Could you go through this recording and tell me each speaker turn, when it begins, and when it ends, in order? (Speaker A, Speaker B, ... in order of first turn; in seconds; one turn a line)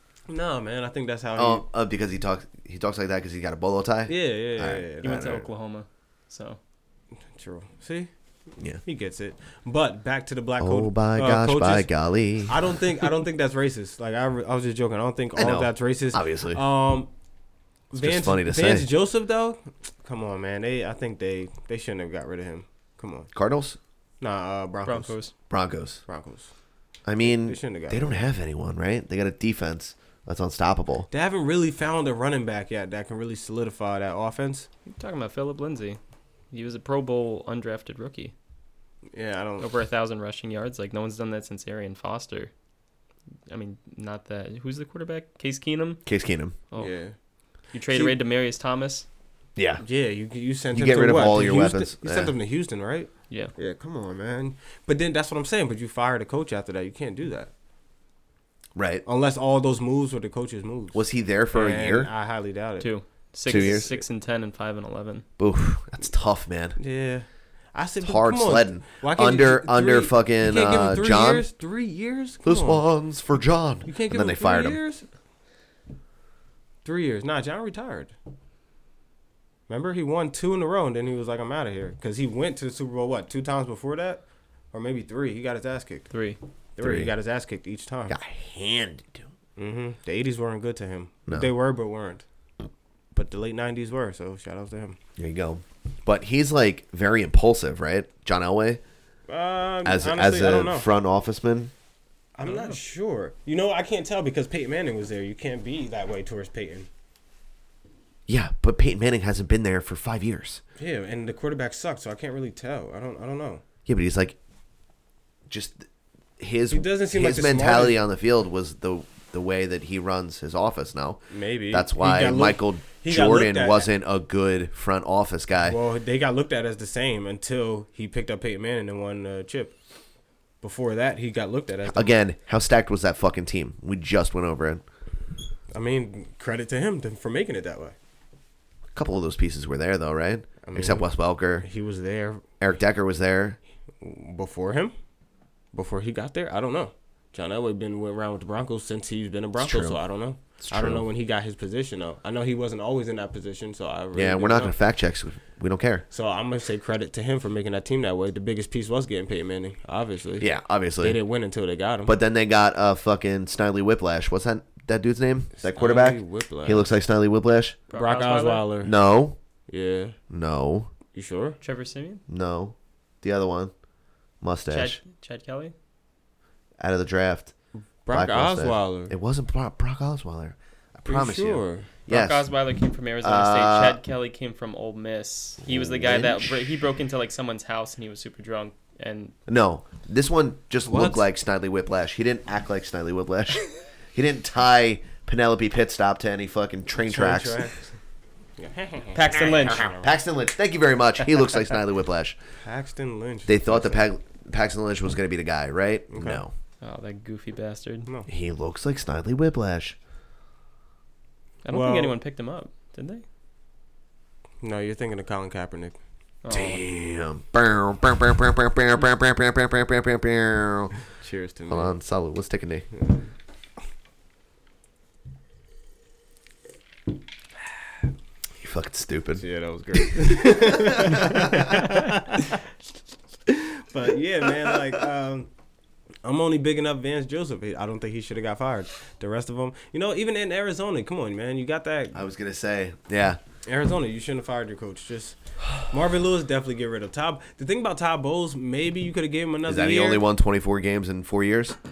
Speaker A: 0.3-1.6
Speaker B: 1.4-5.4
Speaker A: 4.1-5.4
Speaker C: 5.0-6.6
Speaker A: 7.3-8.1
Speaker A: 8.8-11.9
Speaker B: 10.6-12.7
Speaker A: 12.5-17.1
Speaker B: 15.4-16.6
Speaker A: 17.9-23.3
Speaker B: 17.9-18.9
Speaker B: 23.3-23.8
Speaker A: 24.2-25.2
Speaker C: 24.9-25.3
Speaker B: 25.5-26.0
Speaker A: 26.1-26.5
Speaker B: 27.1-31.1
Speaker A: 27.2-28.2
Speaker A: 31.1-34.7
Speaker C: 34.9-36.0
Speaker C: 36.5-38.3
Speaker A: 39.1-39.7
Speaker C: 39.6-42.5
Speaker C: 43.5-46.0
Speaker B: 46.1-46.6
Speaker C: 46.7-47.0
Speaker A: 46.8-47.1
Speaker C: 47.7-49.1
Speaker A: 47.9-48.2
Speaker B: 49.6-49.8
Speaker A: 49.8-57.5
Speaker B: 50.7-52.3
Speaker B: 58.8-59.0
Speaker A: 59.1-62.9
Speaker B: 60.9-62.1
Speaker C: 62.8-65.2
Speaker A: 63.5-63.9
Speaker B: 63.5-64.0
Speaker B: 65.4-66.8
Speaker A: 66.8-72.8
Speaker B: 68.0-71.5
Speaker B: 72.4-74.8
Speaker A: 73.9-75.0
Speaker A: 76.8-78.2
Speaker A: 79.7-86.1
Speaker C: 86.1-86.4
Speaker A: 86.8-88.2
Speaker B: 86.8-87.1
Speaker B: 88.1-89.3
Speaker A: 89.6-92.2
Speaker A: 93.2-95.0
Speaker B: 95.2-98.8
Speaker A: 99.3-100.9
Speaker B: 99.8-101.7
Speaker A: 102.4-106.9
Speaker B: 108.3-110.6
Speaker A: 110.8-113.6
Speaker B: 113.9-114.4
Speaker B: 115.5-115.9
Speaker B: 116.4-125.8
Speaker A: 116.7-118.0
Speaker A: 121.3-123.9
Speaker A: 125.7-129.8
Speaker A: 130.6-132.2
Speaker B: 131.9-134.8
Speaker A: 135.7-137.9
Speaker B: 138.9-141.7
Speaker A: 140.6-142.4
Speaker B: 142.6-143.6
Speaker A: 144.0-144.9
Speaker A: 145.7-154.8
Speaker B: 149.6-150.0
Speaker B: 150.6-151.1
Speaker B: 154.1-156.0
Speaker A: 156.1-162.1
Speaker B: 160.4-161.2
Speaker B: 162.1-167.8
Speaker A: 165.6-166.9
Speaker C: 167.9-168.7
Speaker A: 167.9-168.9
Speaker B: 168.8-169.4
Speaker A: 169.7-170.2
Speaker B: 170.3-170.9
Speaker A: 171.1-171.6
Speaker C: 171.6-172.2
Speaker B: 172.3-173.7
Speaker B: 174.4-175.0
Speaker C: 174.7-175.7
Speaker B: 176.8-177.5
Speaker A: 178.0-179.1
Speaker B: 178.1-182.5
Speaker A: 181.1-181.9
Speaker C: 182.1-189.3
Speaker B: 183.2-184.0
Speaker B: 185.6-186.6
Speaker B: 189.5-197.7
Speaker A: 190.8-191.3
Speaker A: 197.0-197.9
Speaker A: 198.6-200.1
Speaker C: 199.1-199.9
Speaker B: 199.3-202.4
Speaker A: 202.6-204.1
Speaker B: 203.5-206.5
Speaker A: 206.1-206.4
Speaker C: 206.8-208.1
Speaker B: 208.3-210.0
Speaker C: 211.7-213.2
Speaker A: 211.7-212.2
Speaker A: 214.6-216.0
Speaker C: 216.4-216.8
Speaker B: 216.5-220.9
Speaker A: 221.2-222.0
Speaker B: 221.7-222.9
Speaker A: 222.9-223.2
Speaker B: 228.6-231.8
Speaker A: 229.4-232.6
Speaker A: 233.5-235.5
Speaker A: 236.2-242.2
Speaker B: 242.1-243.4
Speaker A: 243.7-250.2
Speaker B: 249.7-251.8